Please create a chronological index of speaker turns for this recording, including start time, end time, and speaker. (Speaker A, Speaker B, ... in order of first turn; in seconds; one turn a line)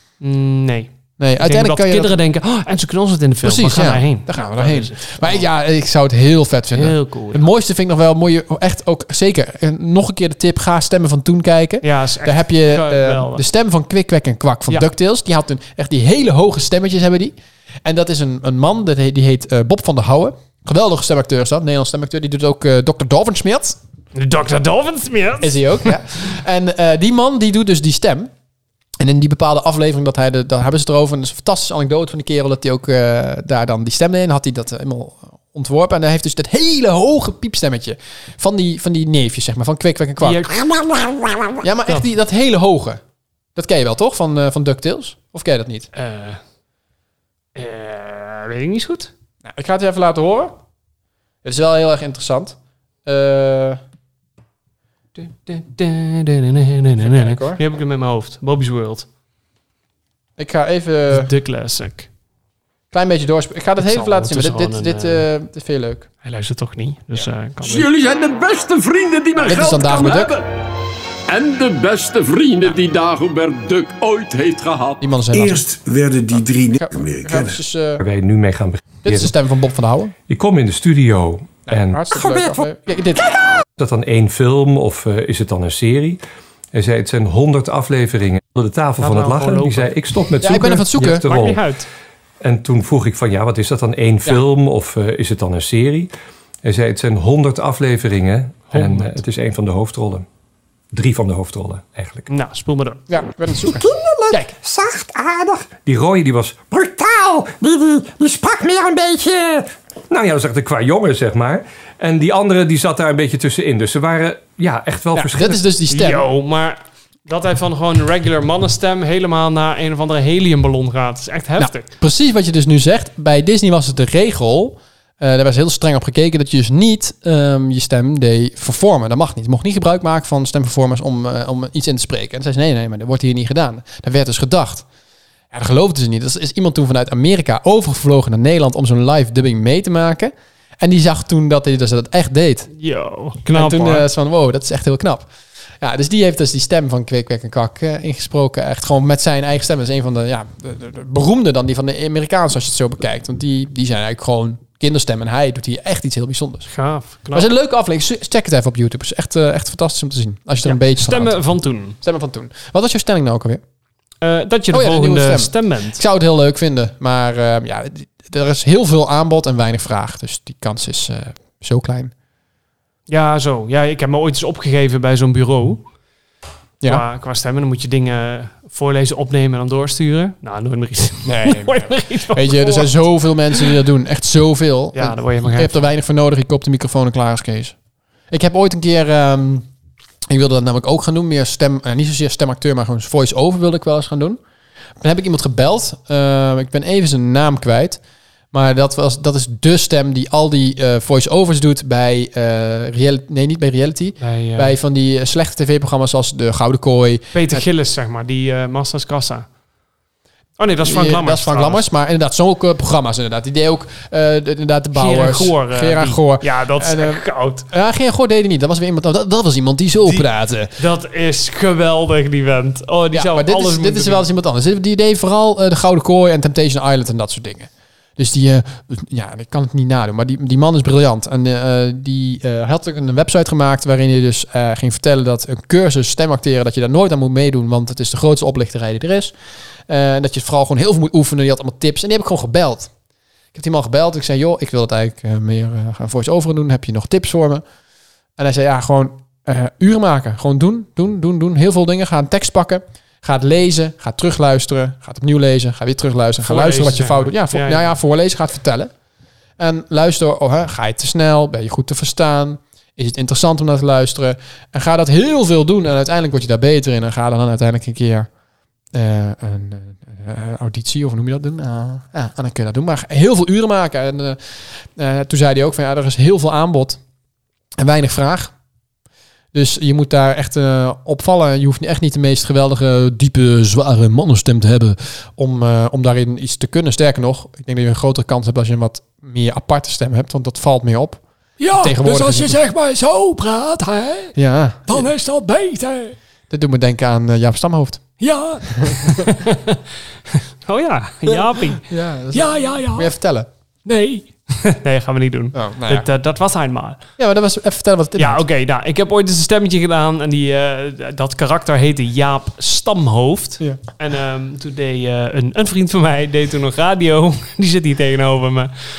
Speaker A: 0.2-5.5
Speaker B: 1.2-2.1
Speaker B: 3.4-23.8
Speaker A: 6.7-7.4
Speaker A: 11.8-13.4
Speaker A: 24.1-26.0
Speaker B: 25.4-28.3
Speaker B: 29.0-40.5
Speaker A: 40.2-42.0
Speaker B: 41.6-43.0
Speaker B: 43.5-45.9
Speaker A: 45.9-46.4
Speaker A: 47.5-49.1
Speaker B: 49.4-50.5
Speaker B: 51.4-53.8
Speaker A: 55.1-59.1
Speaker B: 57.0-57.6
Speaker B: 60.4-61.3
Speaker A: 61.1-62.1
Speaker B: 62.9-66.1
Speaker A: 63.8-65.3
Speaker A: 66.2-67.9
Speaker C: 67.7-70.2
Speaker B: 69.4-70.4
Speaker D: 69.4-70.3
Speaker C: 71.3-75.0
Speaker B: 75.0-75.7
Speaker D: 75.4-76.6
Speaker B: 76.3-78.0
Speaker E: 78.0-79.3
Speaker B: 79.0-80.1
Speaker E: 80.3-82.7
Speaker B: 81.7-83.3
Speaker E: 83.8-86.2
Speaker E: 86.7-91.7
Speaker A: 89.0-89.9
Speaker B: 90.4-91.2
Speaker A: 91.0-91.9
Speaker E: 92.4-96.1
Speaker E: 96.6-100.2
Speaker A: 98.7-99.2
Speaker E: 100.9-102.3
Speaker A: 102.3-103.0
Speaker B: 103.1-104.5
Speaker E: 103.6-115.6
Speaker B: 115.1-116.2
Speaker A: 115.9-121.9
Speaker B: 121.6-134.8
Speaker B: 135.5-142.7
Speaker A: 142.7-144.1
Speaker B: 143.5-145.3
Speaker B: 145.8-156.7
Speaker A: 156.7-157.5
Speaker B: 157.3-161.4
Speaker A: 160.6-162.0
Speaker B: 162.0-163.6
Speaker A: 164.2-166.0
Speaker B: 164.7-172.1
Speaker A: 173.1-175.8
Speaker A: 176.8-183.7
Speaker B: 181.2-187.7
Speaker A: 184.9-185.9
Speaker B: 188.3-189.7
Speaker B: 190.3-194.4
Speaker B: 195.0-198.0
Speaker B: 198.5-207.6
Speaker A: 204.2-204.8
Speaker A: 207.3-209.4
Speaker A: 210.6-211.8
Speaker B: 210.8-220.7
Speaker A: 214.9-217.7
Speaker A: 220.1-224.2
Speaker B: 223.1-239.3
Speaker B: 239.9-242.9
Speaker B: 243.5-247.6
Speaker B: 248.4-258.9
Speaker A: 256.4-257.9
Speaker B: 259.6-268.3
Speaker B: 268.9-277.0
Speaker B: 277.8-278.5
Speaker B: 279.5-292.6
Speaker C: 291.6-294.3
Speaker B: 294.3-295.1
Speaker C: 294.9-296.1
Speaker B: 296.5-298.2
Speaker C: 298.2-299.2
Speaker B: 298.7-299.2
Speaker A: 299.0-301.9
Speaker B: 301.7-303.5
Speaker C: 302.3-303.1
Speaker A: 303.9-307.0
Speaker B: 305.5-306.1
Speaker B: 307.2-308.4
Speaker A: 308.2-318.7